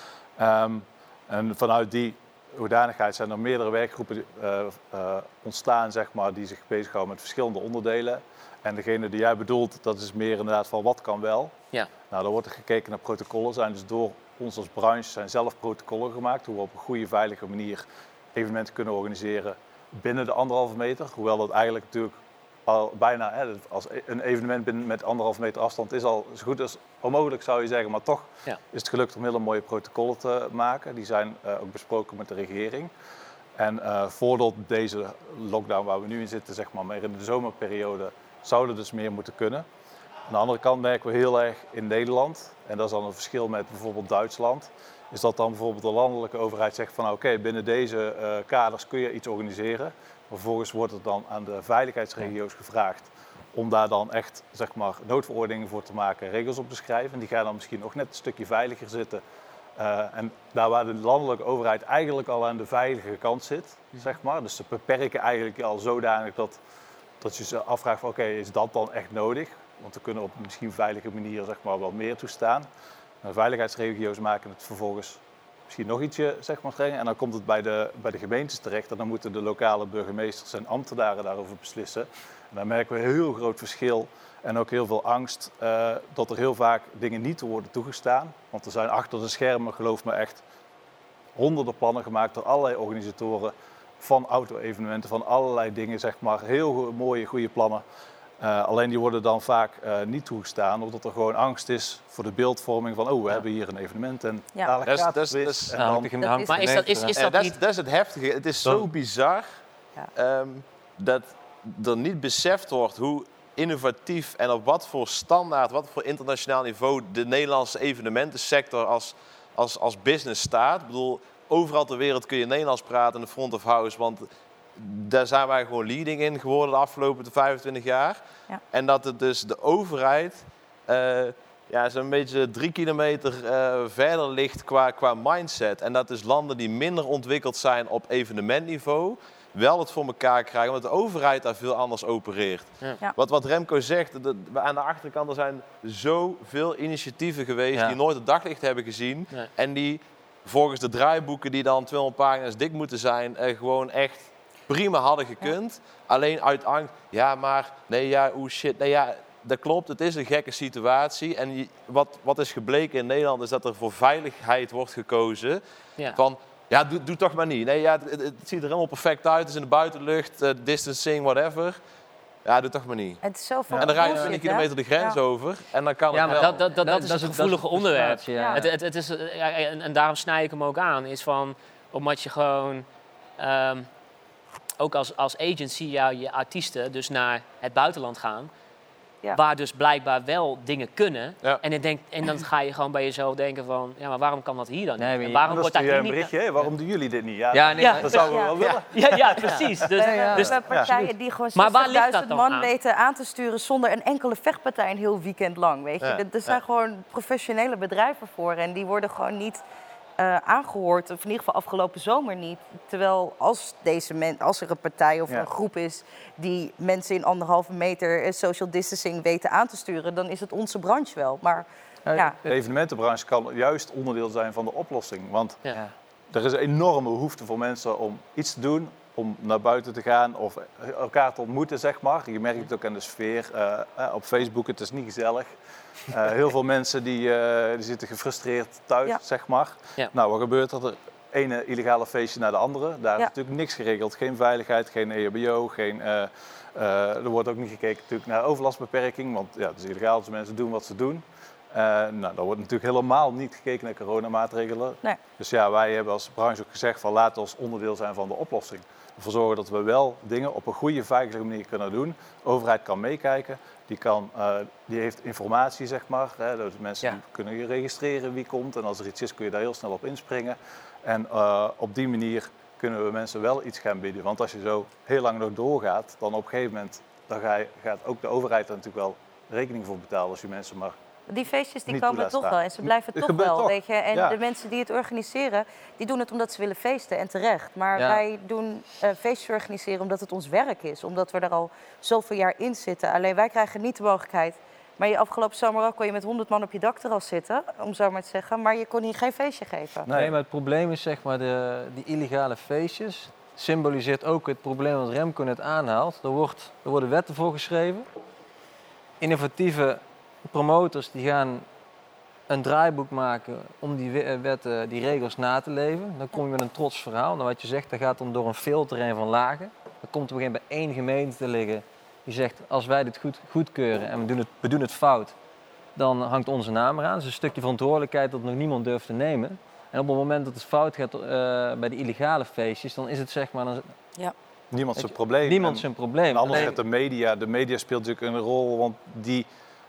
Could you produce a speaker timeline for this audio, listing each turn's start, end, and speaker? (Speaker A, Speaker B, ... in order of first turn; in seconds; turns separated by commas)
Speaker A: 0.4-11.6, Speaker A: 12.1-32.9, Speaker A: 33.6-39.7, Speaker A: 40.3-59.2, Speaker A: 59.8-66.6, Speaker A: 67.2-72.7, Speaker A: 73.2-90.4, Speaker A: 91.4-97.8, Speaker A: 98.4-106.1, Speaker B: 104.8-105.9, Speaker C: 105.7-107.1, Speaker D: 106.2-106.8, Speaker E: 106.5-107.6, Speaker B: 107.2-109.6, Speaker B: 110.2-128.2, Speaker B: 128.7-165.6, Speaker B: 166.1-171.8, Speaker B: 172.4-173.2, Speaker D: 173.2-175.2, Speaker C: 173.8-174.3, Speaker B: 173.8-176.6, Speaker C: 176.1-178.7, Speaker E: 176.3-182.9, Speaker D: 178.4-178.6, Speaker E: 183.4-183.9, Speaker E: 184.8-188.5, Speaker E: 189.3-196.3, Speaker C: 195.0-195.8, Speaker A: 195.5-199.9, Speaker C: 197.5-198.4, Speaker E: 197.8-200.8, Speaker D: 198.3-198.5, Speaker D: 200.0-209.6, Speaker C: 200.0-201.1, Speaker A: 200.4-200.9, Speaker E: 201.5-202.7, Speaker B: 206.0-206.6, Speaker D: 210.2-222.4, Speaker C: 222.1-222.6, Speaker A: 222.5-225.6, Speaker A: 226.3-235.5, Speaker A: 236.1-281.0, Speaker D: 281.3-300.1, Speaker A: 281.9-284.4, Speaker C: 288.0-288.2, Speaker A: 300.1-300.4, Speaker C: 300.1-308.1, Speaker C: 309.2-311.6, Speaker C: 312.5-325.4, Speaker C: 325.9-333.9, Speaker A: 334.7-339.5, Speaker C: 335.0-336.8